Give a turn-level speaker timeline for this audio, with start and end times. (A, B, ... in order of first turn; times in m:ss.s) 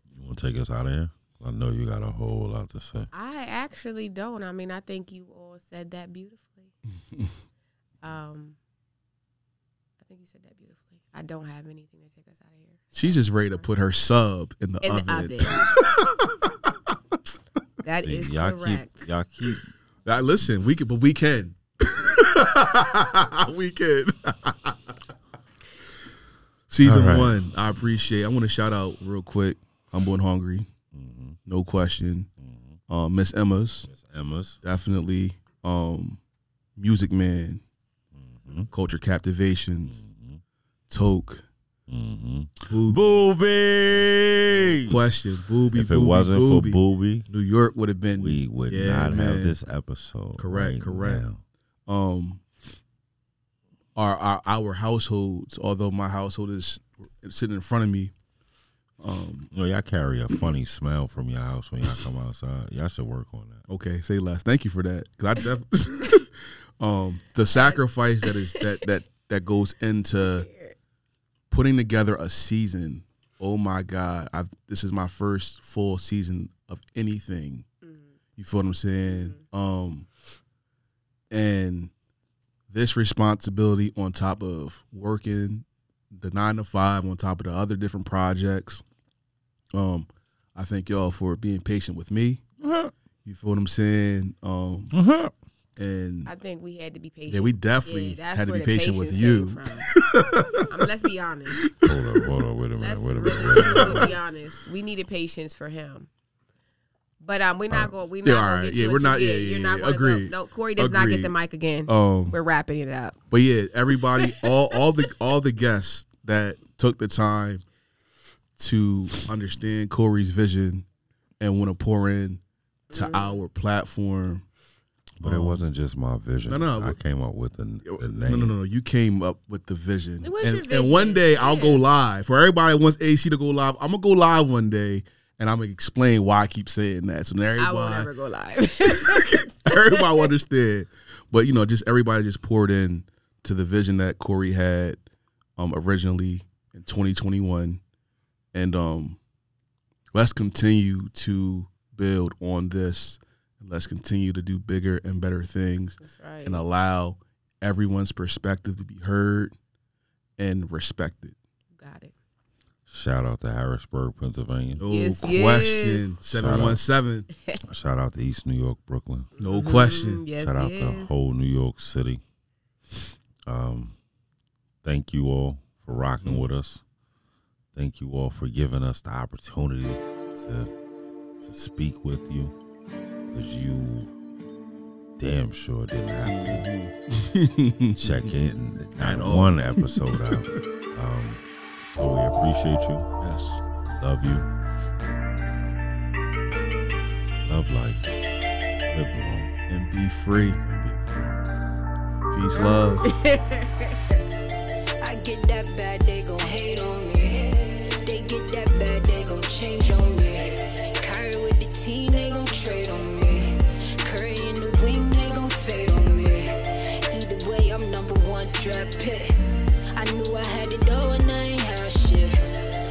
0:00.1-0:03.1 A
0:03.1-0:06.7 B
0:08.0-0:08.6 B
0:10.0-0:13.7 B
0:12.9-0:16.5 C
0:14.8-0:15.6 B
0:17.8-0:19.1 B
0:18.0-0:19.7 A
0:20.0-0:25.0 C
0:26.7-0:30.7 C
0:26.8-0:27.5 A
0:30.9-0:31.4 A
0:31.4-0:32.3 C
0:32.4-0:32.8 A
0:32.9-0:33.9 C
0:33.8-0:34.6 A
0:34.6-0:36.2 C
0:36.8-0:37.6 C
0:38.1-0:38.7 A
0:38.7-0:40.0 C
0:39.9-0:40.4 A
0:40.9-0:41.4 C
0:41.9-0:45.0 A
0:42.7-0:43.1 C
0:44.6-0:49.6 C
0:45.7-0:47.3 A
0:48.2-0:51.4 A
0:50.4-0:51.2 C
0:51.9-0:52.4 C
0:54.0-0:58.1 C
0:59.0-0:59.5 C
0:59.5-1:03.6 A
1:03.7-1:10.5 C
1:07.5-1:08.7 B
1:10.2-1:10.7 B
1:11.5-1:17.6 C
1:17.8-1:18.1 B
1:18.4-1:20.1 C
1:19.0-1:19.4 B
1:21.3-1:21.9 C
1:22.7-1:28.8 C
1:29.7-1:32.5 C
1:32.6-1:32.9 A
1:33.2-1:34.9 C
1:34.9-1:35.3 A
1:35.8-1:36.3 C
1:36.2-1:39.9 B
1:37.3-1:40.9 C
1:40.6-1:41.7 B
1:41.6-1:42.0 C
1:41.8-1:44.1 A
1:42.8-1:46.1 B
1:43.3-1:44.1 C
1:47.2-1:53.2 B
1:47.7-1:51.3 C
1:51.9-1:52.4 C
1:53.3-1:57.6 C
1:54.1-1:54.5 B
1:58.6-2:00.9 C
2:01.4-2:04.4 C
2:02.9-2:03.4 B
2:05.2-2:08.6 A
2:05.2-2:05.6 C
2:06.5-2:07.0 C
2:07.8-2:18.1 C
2:10.2-2:11.8 B
2:17.6-2:20.3 B
2:18.9-2:25.0 C
2:25.6-2:27.8 C
2:28.5-2:29.2 C
2:30.1-2:39.5 C
2:36.0-2:36.6 B
2:40.4-2:41.4 C
2:41.8-2:42.1 B
2:42.9-2:44.8 A
2:44.8-2:47.3 C
2:44.9-2:46.1 B
2:46.2-2:46.8 A
2:47.4-2:47.6 B
2:47.6-2:49.3 A
2:49.4-2:51.1 B
2:49.4-2:50.2 C
2:50.4-2:52.2 A
2:53.4-2:54.0 A
2:54.8-2:56.8 A
2:56.2-2:56.5 C
2:57.7-3:00.7 A
3:01.4-3:02.5 A
3:03.3-3:04.1 A
3:05.2-3:06.7 A
3:06.2-3:08.3 C
3:08.0-3:13.1 A
3:09.0-3:10.4 C
3:13.2-3:13.6 C
3:13.8-3:14.5 A
3:17.4-3:18.2 A
3:18.9-3:19.5 A
3:19.7-3:21.3 C
3:22.3-3:23.1 C
3:22.5-3:24.2 B
3:25.0-3:36.5 D
3:37.0-3:39.3 D
3:39.9-3:42.4 D